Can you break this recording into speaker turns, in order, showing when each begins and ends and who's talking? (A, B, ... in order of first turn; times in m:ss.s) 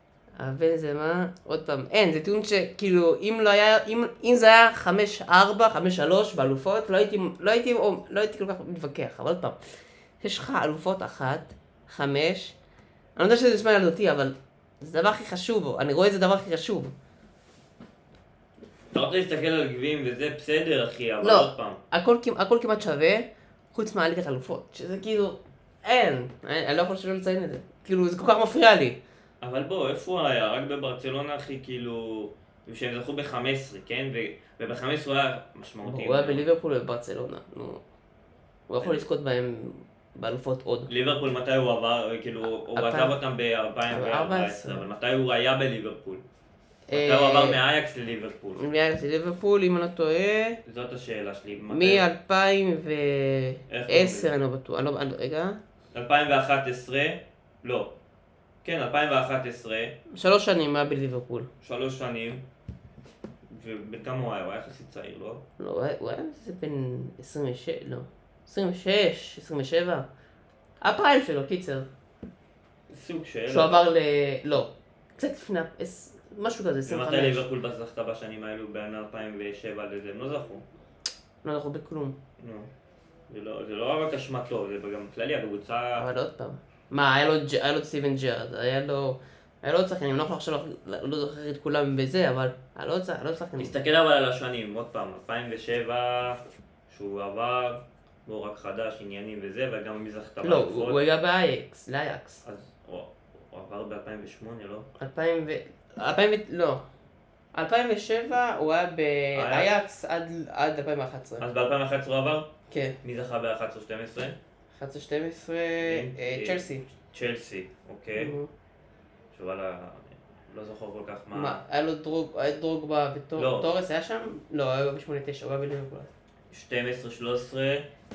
0:00.4-0:09.6 A
0:10.2-0:12.5 A
0:13.2-0:16.9 A
0:18.9-0:21.8 B
0:21.2-0:29.0 A
0:29.4-0:36.4 B
0:35.8-0:37.8 A
0:38.7-0:40.9 A
0:40.9-0:46.2 B
0:42.4-0:43.2 A
0:43.9-0:44.8 A
0:46.9-0:47.6 A
0:46.9-0:48.6 B
0:48.6-0:50.6 A
0:50.6-0:52.0 B
0:51.7-0:55.6 A
0:53.7-0:54.3 B
0:55.9-0:57.9 B
0:58.6-0:59.9 B
1:00.1-1:01.5 A
1:01.6-1:02.4 B
1:03.5-1:05.4 B
1:05.6-1:10.1 A
1:10.8-1:11.9 A
1:12.9-1:13.8 B
1:13.5-1:17.4 A
1:16.9-1:20.6 B
1:21.4-1:22.2 A
1:22.4-1:22.7 B
1:23.3-1:26.0 B
1:26.0-1:33.7 A
1:33.6-1:41.0 B
1:40.4-1:42.4 A
1:42.4-1:44.9 B
1:45.0-1:46.8 A
1:47.5-1:51.4 A
1:49.3-1:49.7 B
1:51.4-1:52.5 B
1:52.7-1:53.0 A
1:53.0-1:54.4 B
1:54.7-1:56.8 A
1:55.8-1:58.3 B
1:58.1-1:58.5 A
1:59.3-2:01.6 B
2:01.3-2:06.1 A
2:03.4-2:03.7 B
2:06.5-2:07.8 B